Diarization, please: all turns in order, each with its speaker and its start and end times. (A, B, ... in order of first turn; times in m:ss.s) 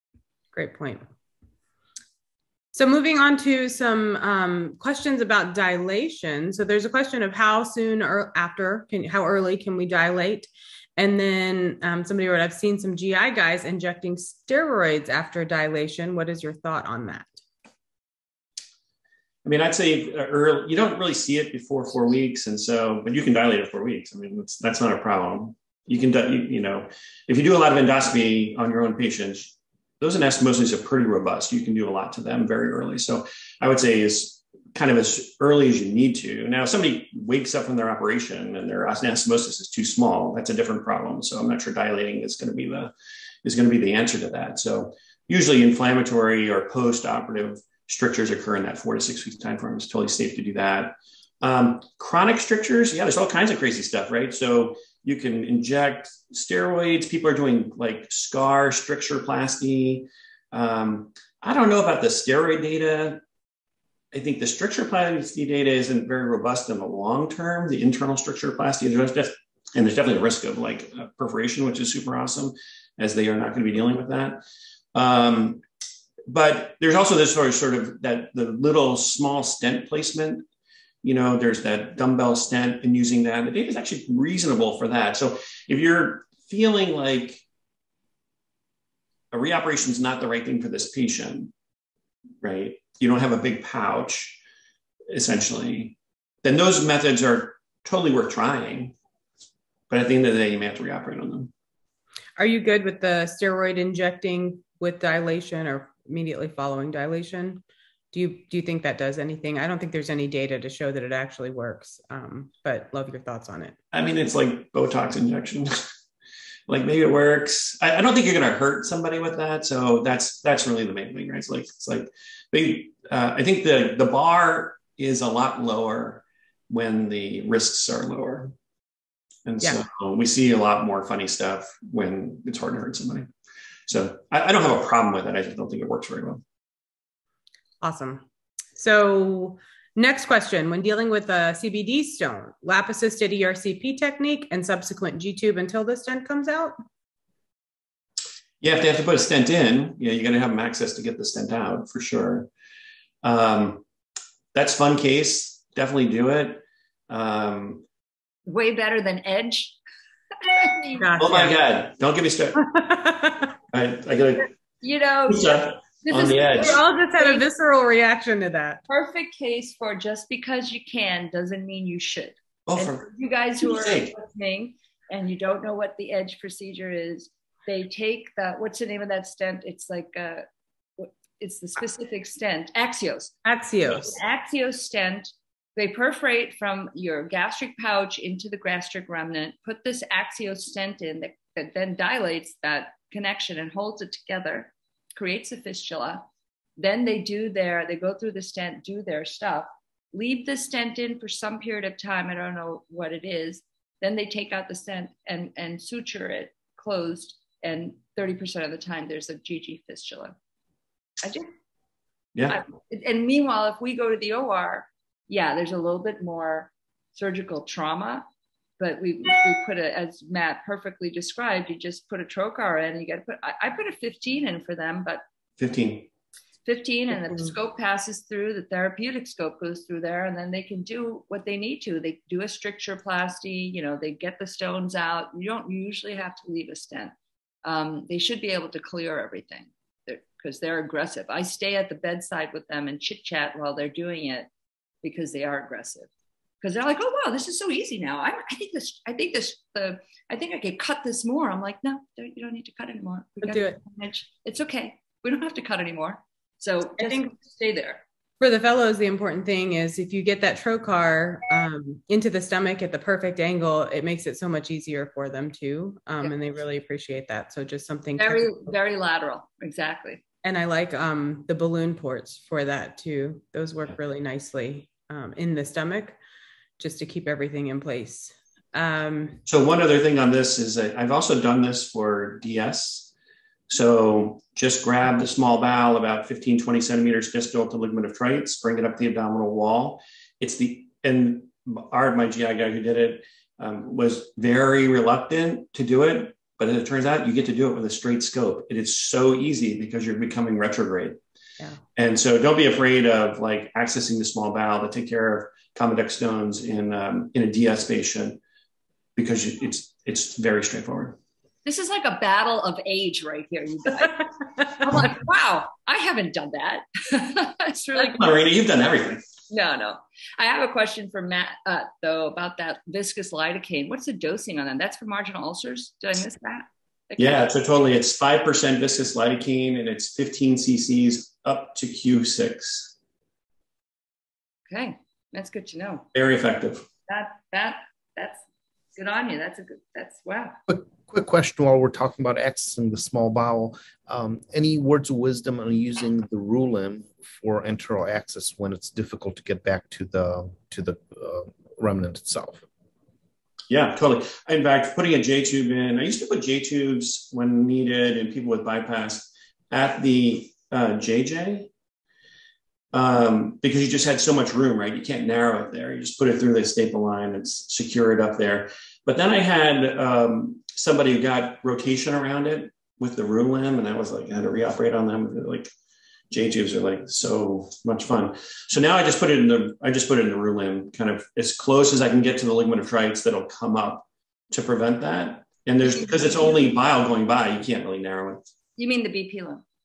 0:00.5-0:01.1 A
0:02.7-0:17.3 A
0:19.4-0:42.9 B
0:43.4-1:03.2 B
1:04.1-1:14.4 B
1:15.0-1:15.6 B
1:16.3-1:20.4 B
1:21.0-1:27.4 B
1:29.3-1:31.5 B
1:32.4-1:34.4 B
1:35.1-1:39.0 B
1:39.9-1:41.5 B
1:42.4-1:53.8 A
1:53.9-1:55.9 B
1:56.7-2:08.5 B
2:09.5-2:13.3 B
2:13.9-2:16.4 B
2:17.8-2:18.2 A
2:18.8-2:26.8 A
2:28.6-2:32.5 B
2:33.2-2:33.8 B
2:34.5-2:37.8 B
2:38.5-2:39.8 C
2:40.4-2:41.5 C
2:41.0-2:41.6 A
2:41.2-2:42.6 B
2:42.6-2:43.5 A
2:43.7-2:44.5 B
2:44.8-2:47.4 C
2:45.3-2:46.8 B
2:46.6-2:48.8 A
2:48.9-3:00.5 C
2:52.7-2:53.0 B
2:53.6-2:54.2 B
3:01.0-3:03.4 C
3:03.4-3:04.2 A
3:04.0-3:16.3 C
3:16.8-3:30.4 C
3:31.2-3:31.5 C
3:32.4-3:32.6 B
3:32.5-3:38.3 C
3:38.8-3:45.2 C
3:45.6-3:46.1 B
3:46.7-3:57.1 C
3:57.6-4:04.5 C
4:05.0-4:06.1 C
4:06.6-4:18.0 C
4:13.4-4:13.8 A
4:17.0-4:17.3 A
4:18.4-4:28.7 A
4:28.2-4:30.2 C
4:30.4-4:36.2 A
4:36.8-4:39.4 A
4:39.5-4:43.1 B
4:43.7-5:01.2 B
5:02.0-5:08.4 B
5:09.2-5:11.2 B
5:11.6-5:18.2 C
5:18.0-5:19.2 B
5:19.5-5:27.5 C
5:27.2-5:33.0 B
5:34.7-5:36.1 C
5:36.1-5:36.9 B
5:37.1-5:38.4 C
5:39.0-5:40.6 C
5:40.7-5:52.6 D
5:53.7-6:01.7 B
6:02.9-6:15.7 B
6:16.3-6:28.4 B
6:26.0-6:26.5 C
6:28.8-6:29.6 C